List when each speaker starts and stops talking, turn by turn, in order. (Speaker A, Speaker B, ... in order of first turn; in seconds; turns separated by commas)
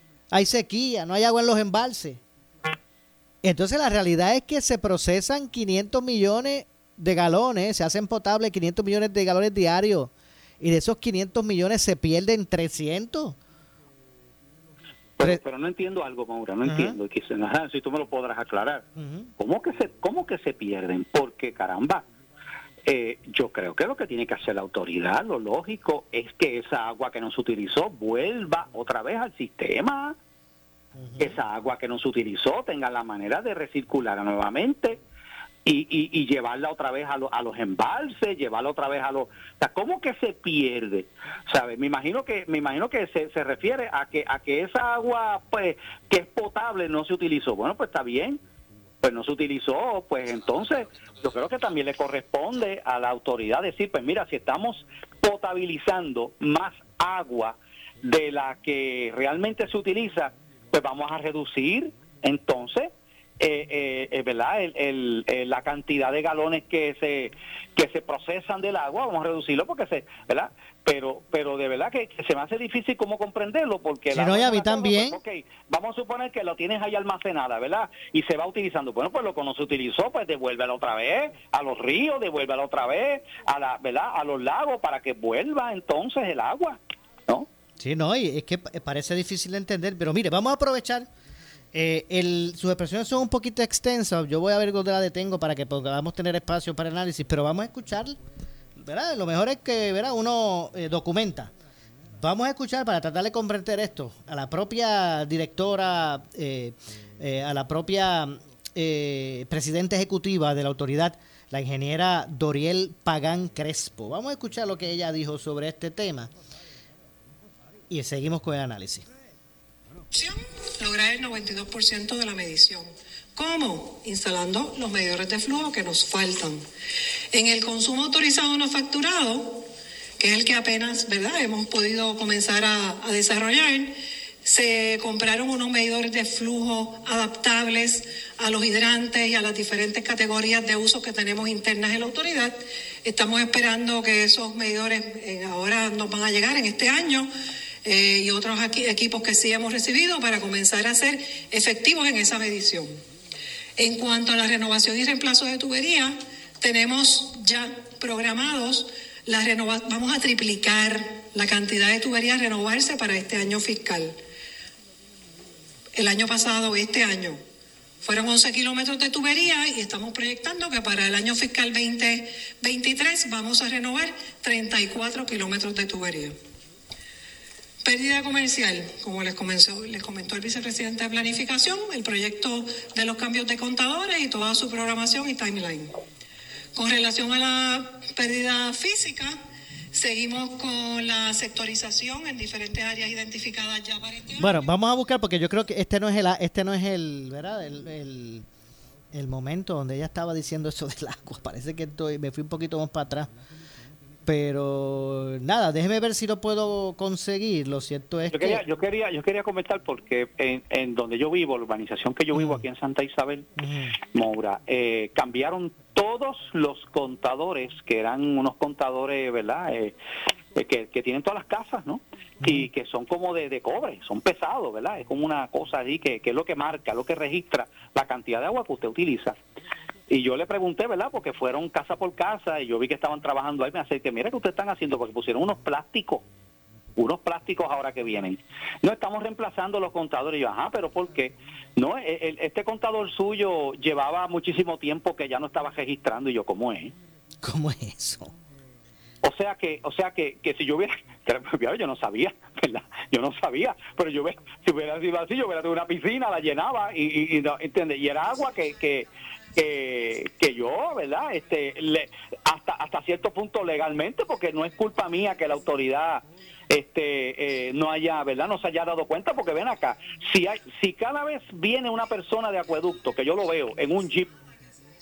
Speaker A: 0.3-2.2, Speaker A: 3.4-13.4, Speaker B: 15.2-18.9, Speaker A: 16.6-17.0, Speaker A: 18.9-19.3, Speaker B: 19.4-22.1, Speaker B: 22.9-30.2, Speaker A: 30.9-31.4, Speaker B: 31.2-35.0, Speaker B: 35.6-48.4, Speaker B: 49.0-87.5, Speaker A: 74.1-75.2, Speaker A: 87.8-91.1, Speaker A: 91.7-98.2, Speaker A: 98.8-101.5, Speaker A: 102.1-116.3, Speaker A: 117.9-119.0, Speaker C: 120.1-126.6, Speaker C: 127.3-129.7, Speaker C: 130.2-147.3, Speaker C: 147.8-153.0, Speaker C: 153.8-164.2, Speaker C: 165.9-167.4, Speaker C: 168.0-176.4, Speaker C: 177.8-186.0, Speaker C: 186.8-189.4, Speaker C: 189.9-194.6, Speaker A: 194.4-198.5, Speaker A: 199.1-203.3, Speaker A: 204.2-208.6, Speaker B: 208.3-213.5, Speaker A: 212.3-212.6, Speaker A: 213.6-213.9, Speaker B: 214.1-219.9, Speaker B: 220.6-229.4, Speaker A: 222.4-222.7, Speaker B: 230.1-236.2, Speaker B: 236.9-246.9, Speaker A: 247.4-248.3, Speaker B: 249.2-274.3